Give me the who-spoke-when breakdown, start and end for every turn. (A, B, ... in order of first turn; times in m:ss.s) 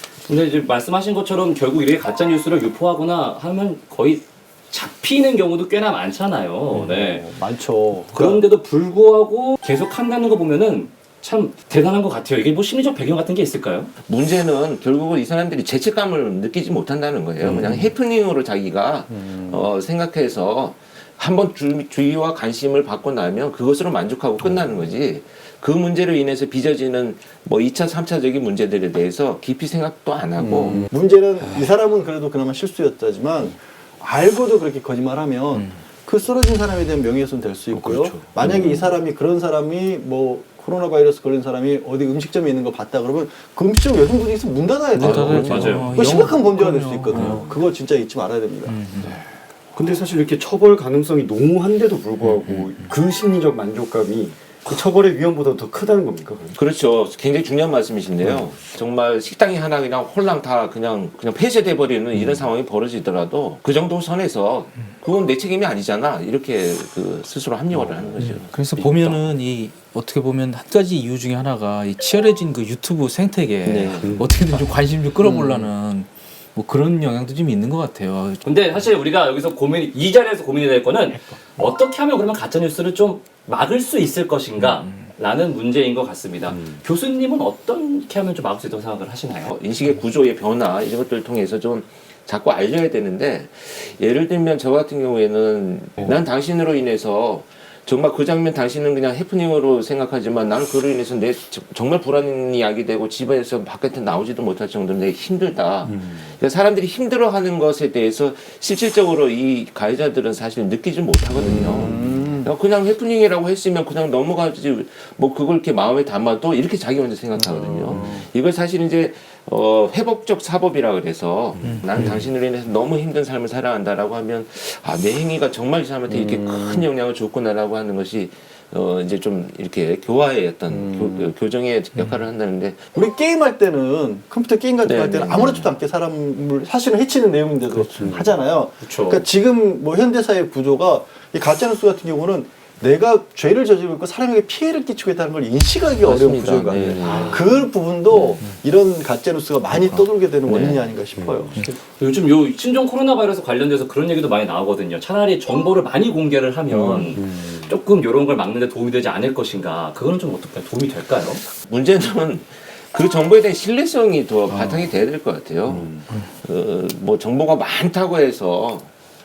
0:00.3-0:07.3 A
0:06.9-0:08.4 B
0:08.1-0:13.9 A
0:14.1-0:30.8 C
0:17.4-0:17.7 B
0:19.1-0:19.7 B
0:30.4-0:48.8 B
0:37.8-0:38.2 D
0:38.4-0:38.9 E
0:45.0-0:47.5 D
0:45.0-0:46.3 A
0:47.1-0:47.5 E
0:48.7-0:49.2 D
0:49.8-0:56.6 E
0:52.3-0:52.9 D
0:56.6-1:09.2 C
1:07.7-1:08.1 E
1:08.2-1:18.4 D
1:13.7-1:14.1 C
1:13.8-1:14.4 E
1:18.4-1:29.5 A
1:24.7-1:24.9 D
1:29.5-2:12.8 C
1:51.4-1:52.5 B
1:57.4-1:58.3 B
2:01.6-2:02.2 D
2:06.1-2:06.9 B
2:10.7-2:11.3 B
2:12.9-2:31.7 B
2:14.8-2:15.7 C
2:17.9-2:18.2 A
2:18.8-2:19.3 A
2:26.0-2:27.4 C
2:27.0-2:27.7 A
2:30.4-2:30.9 C
2:31.2-2:31.5 E
2:31.8-2:41.4 A
2:36.7-2:37.7 E
2:41.6-2:48.9 C
2:44.5-2:44.9 D